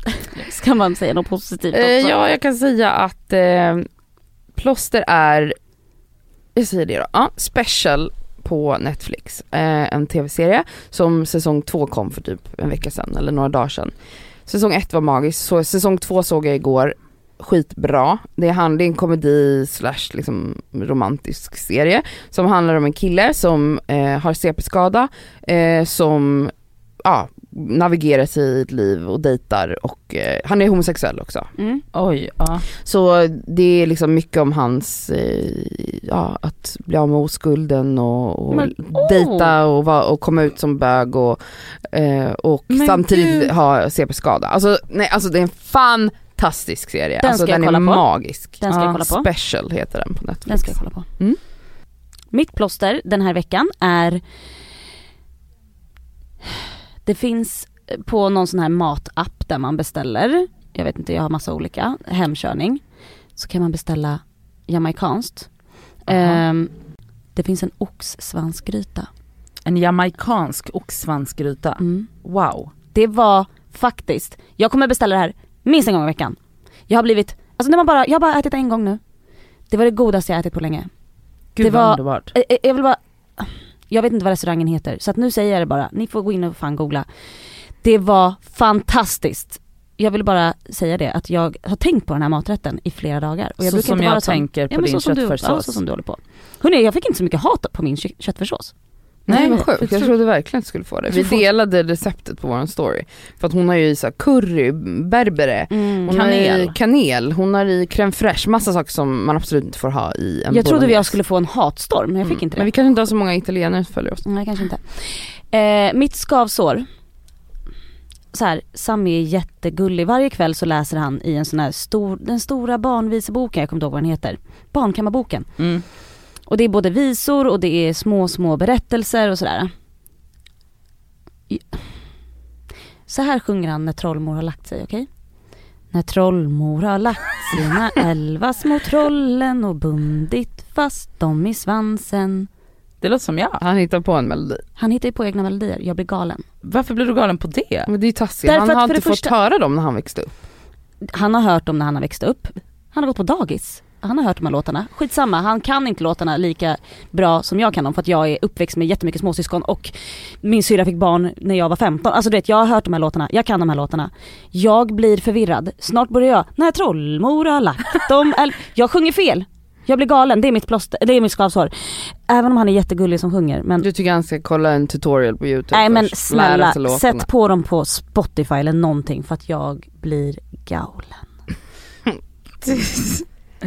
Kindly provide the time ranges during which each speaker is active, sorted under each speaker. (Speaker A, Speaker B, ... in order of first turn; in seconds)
Speaker A: 0.3-2.2, 38.5-39.5, 47.2-48.0, 48.6-49.3, 50.5-51.1, 52.3-54.2, 57.0-62.8, 63.4-65.5, 66.0-66.7, 67.3-69.1, 71.8-72.1, 72.9-76.4, 76.9-79.0, 79.7-80.9, 81.6-87.0, 87.8-98.7, 99.3-99.7, 101.1-101.4, 105.7-106.2, 110.5-112.7, 114.2-116.9, 118.3-125.5, 126.5-129.7, 131.5-131.8, 133.1-135.1, 135.9-142.5, 144.8-146.4, 148.4-149.3, 151.1-171.7, 172.3-173.9, 175.7-181.2
Speaker B: 1.7-3.9, 4.5-5.5, 6.5-13.9, 14.5-31.5, 32.8-51.4, 99.3-111.2, 112.3-114.2, 143.6-144.6, 147.9-150.3, 173.8-177.2
Speaker C: 31.9-32.7, 42.7-43.5, 48.7-49.0, 66.1-66.4, 69.7-72.7, 81.5-82.3, 93.6-95.8, 99.3-100.0, 106.1-106.7, 125.6-125.8, 143.0-143.6, 146.6-147.9, 182.6-183.2